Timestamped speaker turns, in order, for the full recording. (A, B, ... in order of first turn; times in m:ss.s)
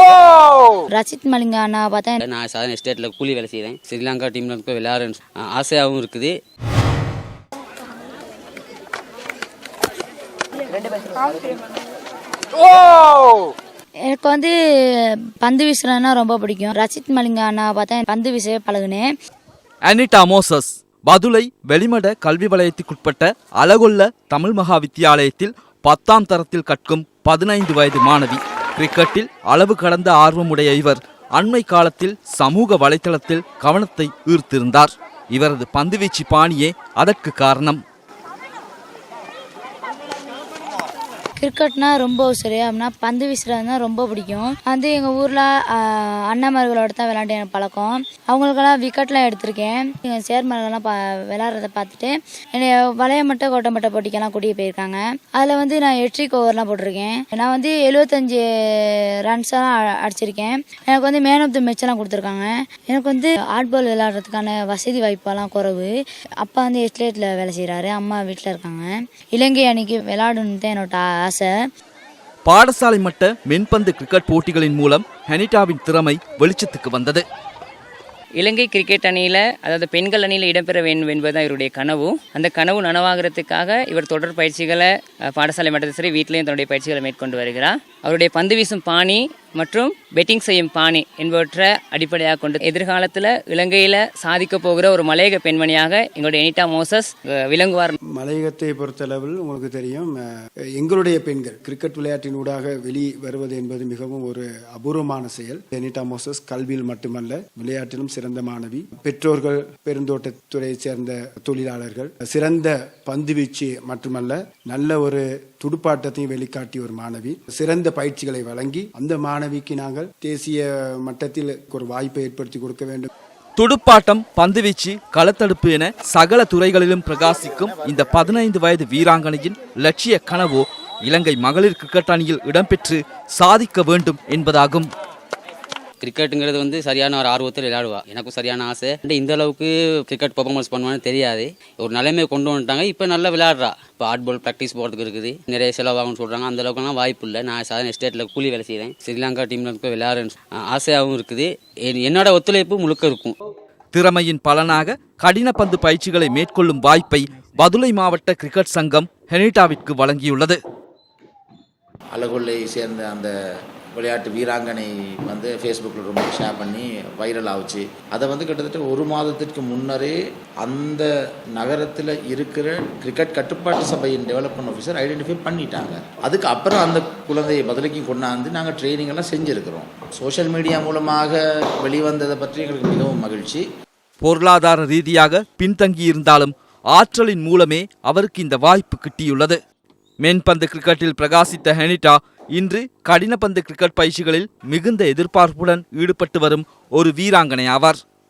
0:00.9-0:02.2 A
0:02.2-0:06.3 B
0:14.0-0:14.6 A
0:15.4-0:19.1 A
0:19.8-0:37.8 C
0:41.4-1:05.9 A
1:06.4-1:11.5 A
1:12.4-1:17.2 C
1:18.4-1:37.9 D
1:38.1-1:40.3 E
1:40.8-2:03.1 E
2:03.6-2:14.9 C
2:16.0-2:33.4 B
2:33.9-2:40.6 C
2:42.1-2:43.3 F
2:43.9-3:03.6 F
3:04.2-3:09.6 C
3:10.2-3:18.0 C